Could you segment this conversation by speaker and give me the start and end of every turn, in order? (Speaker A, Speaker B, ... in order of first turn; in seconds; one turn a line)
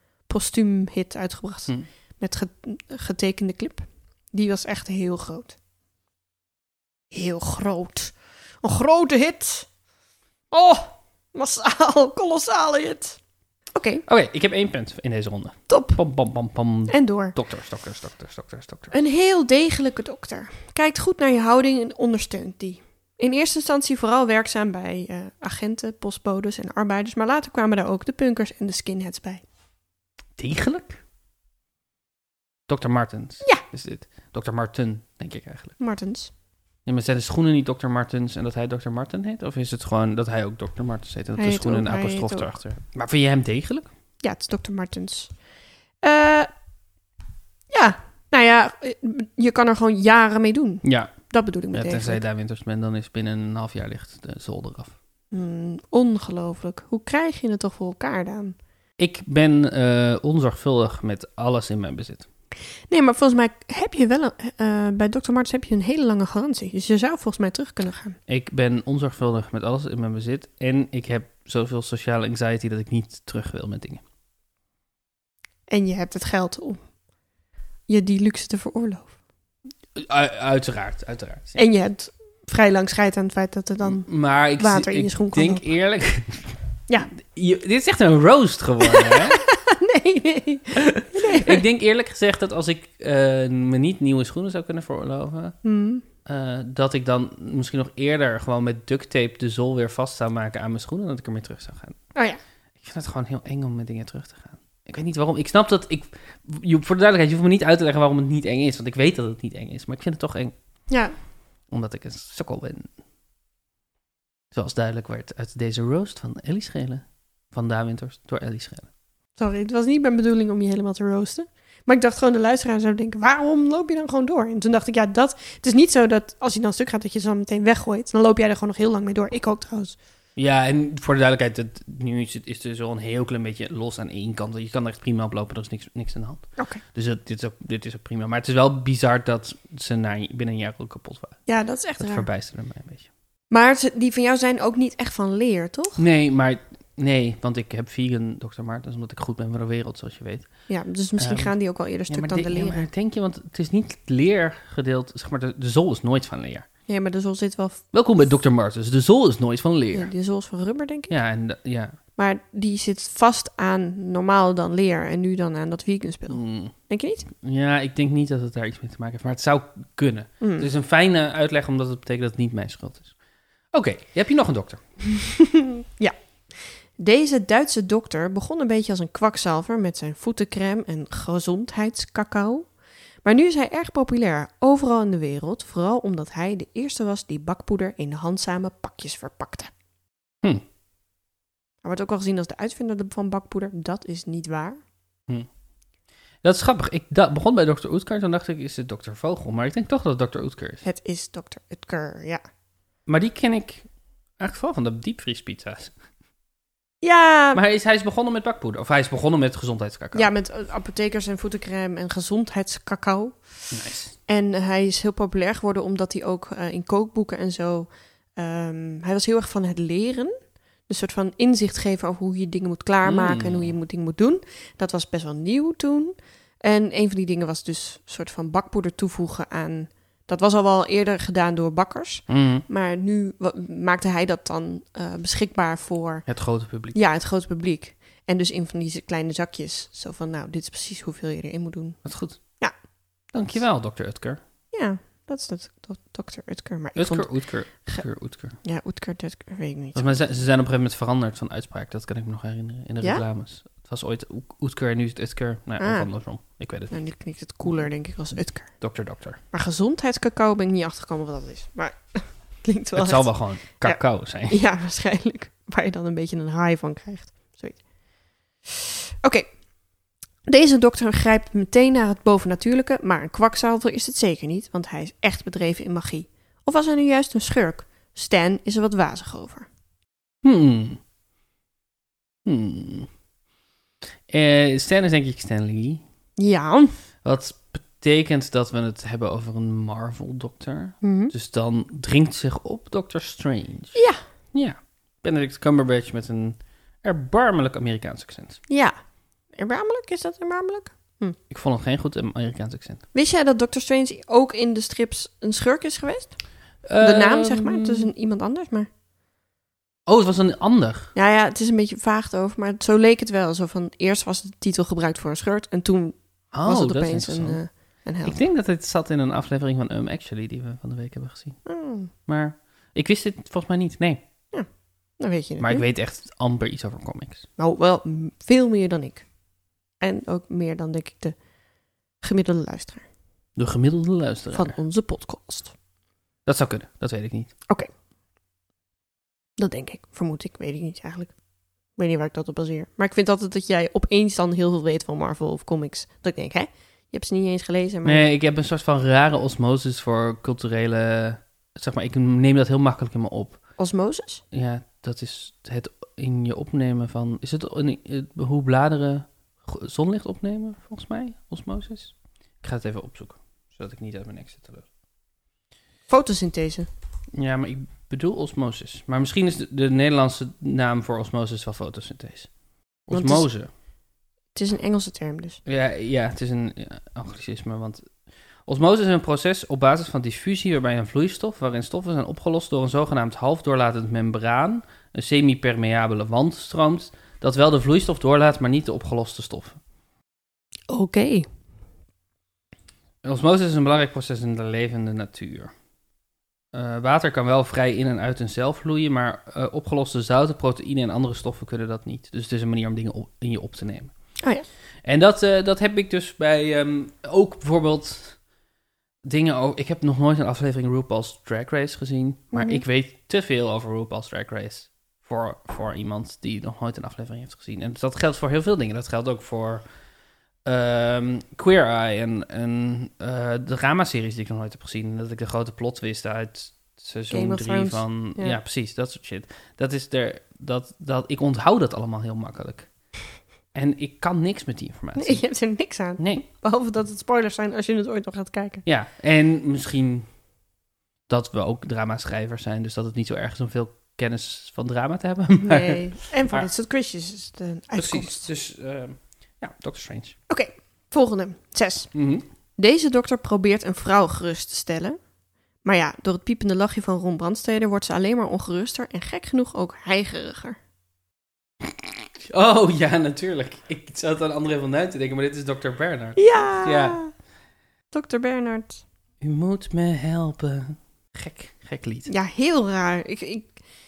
Speaker A: 0.2-5.6
Speaker A: 7.1-9.7
Speaker A: 10.5-13.2
Speaker A: 13.7-14.0
Speaker B: 14.1-18.9
Speaker A: 15.7-16.0
Speaker A: 16.9-17.3
Speaker A: 18.9-29.4
Speaker B: 30.4-31.0
Speaker B: 32.7-35.7
Speaker A: 35.8-36.3
Speaker B: 36.9-43.9
Speaker A: 41.4-42.5
Speaker A: 44.2-45.3
Speaker A: 46.0-46.5
Speaker A: 47.7-52.2
Speaker B: 50.8-51.1
Speaker B: 51.7-55.0
Speaker A: 55.3-58.5
Speaker B: 59.0-62.3
Speaker A: 62.9-68.2
Speaker B: 68.3-74.0
Speaker A: 75.7-76.8
Speaker A: 77.9-79.1
Speaker B: 80.0-81.6
Speaker A: 81.6-84.1
Speaker B: 83.8-86.6
Speaker A: 84.6-85.6
Speaker B: 87.1-89.4
Speaker A: 88.8-91.6
Speaker B: 90.8-95.5
Speaker A: 95.6-96.0
Speaker B: 96.2-102.0
Speaker A: 102.1-102.4
Speaker B: 102.8-110.5
Speaker A: 110.9-111.1
Speaker B: 111.7-112.9
Speaker B: 114.5-118.9
Speaker A: 119.4-129.9
Speaker B: 130.3-141.4
Speaker A: 141.5-142.3
Speaker B: 142.0-143.1
Speaker A: 143.5-146.0
Speaker B: 146.0-150.5
Speaker A: 150.7-152.8
Speaker B: 151.2-151.5
Speaker B: 152.1-156.7
Speaker A: 156.9-157.8
Speaker B: 157.9-160.1
Speaker A: 159.9-161.1
Speaker B: 161.1-162.0
Speaker A: 162.2-167.2
Speaker B: 166.3-166.7
Speaker B: 167.3-173.1
Speaker A: 170.4-170.7
Speaker B: 173.7-174.8
Speaker A: 175.1-182.7
Speaker A: 183.2-189.7
Speaker A: 191.8-194.8
Speaker B: 196.4-200.8
Speaker A: 200.8-202.4
Speaker B: 203.1-203.8
Speaker B: 204.4-205.9
Speaker A: 207.0-207.6
Speaker B: 207.5-210.3
Speaker A: 210.1-213.4
Speaker B: 213.7-214.1
Speaker A: 214.3-220.3
Speaker A: 220.9-236.2
Speaker B: 223.0-223.7
Speaker B: 232.3-232.6
Speaker B: 236.3-237.0
Speaker A: 236.9-242.0
Speaker B: 242.0-242.4
Speaker B: 243.3-244.4
Speaker A: 244.7-247.3
Speaker B: 246.9-248.6
Speaker A: 248.6-250.2
Speaker B: 249.9-256.9
Speaker A: 255.8-256.1
Speaker A: 256.9-258.8
Speaker B: 258.8-259.4
Speaker A: 259.5-267.8
Speaker B: 262.9-264.6
Speaker A: 268.6-269.5
Speaker A: 270.4-279.7
Speaker B: 280.4-281.0
Speaker B: 282.4-283.1
Speaker B: 284.3-286.0
Speaker A: 286.4-286.9
Speaker B: 287.2-294.0
Speaker A: 291.0-291.3
Speaker A: 293.9-294.2
Speaker B: 294.5-298.6
Speaker A: 298.7-298.9
Speaker A: 299.5-301.4
Speaker B: 301.5-303.0
Speaker A: 303.1-306.4
Speaker B: 306.9-308.1
Speaker A: 307.0-308.9
Speaker B: 310.1-311.1
Speaker A: 311.1-318.4
Speaker B: 316.5-317.6
Speaker B: 318.2-321.6
Speaker A: 321.6-322.1
Speaker B: 322.2-324.2
Speaker A: 325.2-325.8
Speaker B: 325.6-327.5
Speaker A: 327.6-329.2
Speaker A: 330.0-331.3
Speaker A: 332.2-333.1
Speaker B: 333.6-334.8
Speaker A: 334.5-335.7
Speaker B: 336.4-337.5
Speaker A: 339.6-341.3
Speaker A: 342.0-348.2
Speaker B: 348.0-353.6
Speaker A: 353.8-354.4
Speaker B: 354.5-364.9
Speaker A: 366.1-366.9
Speaker B: 367.4-372.5
Speaker B: 373.1-373.7
Speaker A: 373.1-373.5
Speaker A: 374.5-375.6
Speaker B: 375.6-378.1
Speaker B: 378.6-389.8
Speaker A: 390.9-391.5
Speaker B: 393.2-395.7
Speaker B: 396.7-404.1
Speaker B: 405.0-408.4
Speaker B: 409.2-419.8
Speaker A: 412.5-412.8
Speaker B: 420.6-432.9
Speaker A: 427.3-428.6
Speaker B: 433.7-435.4
Speaker A: 435.2-438.8
Speaker B: 436.2-436.4
Speaker B: 438.9-440.3
Speaker B: 441.3-446.7
Speaker A: 445.6-448.5
Speaker B: 447.9-450.4
Speaker A: 450.5-452.1
Speaker B: 452.1-452.4
Speaker A: 452.8-455.2
Speaker A: 455.8-460.8
Speaker B: 461.8-467.2
Speaker A: 466.4-467.3
Speaker A: 468.1-469.0
Speaker B: 469.4-472.3
Speaker A: 472.3-473.7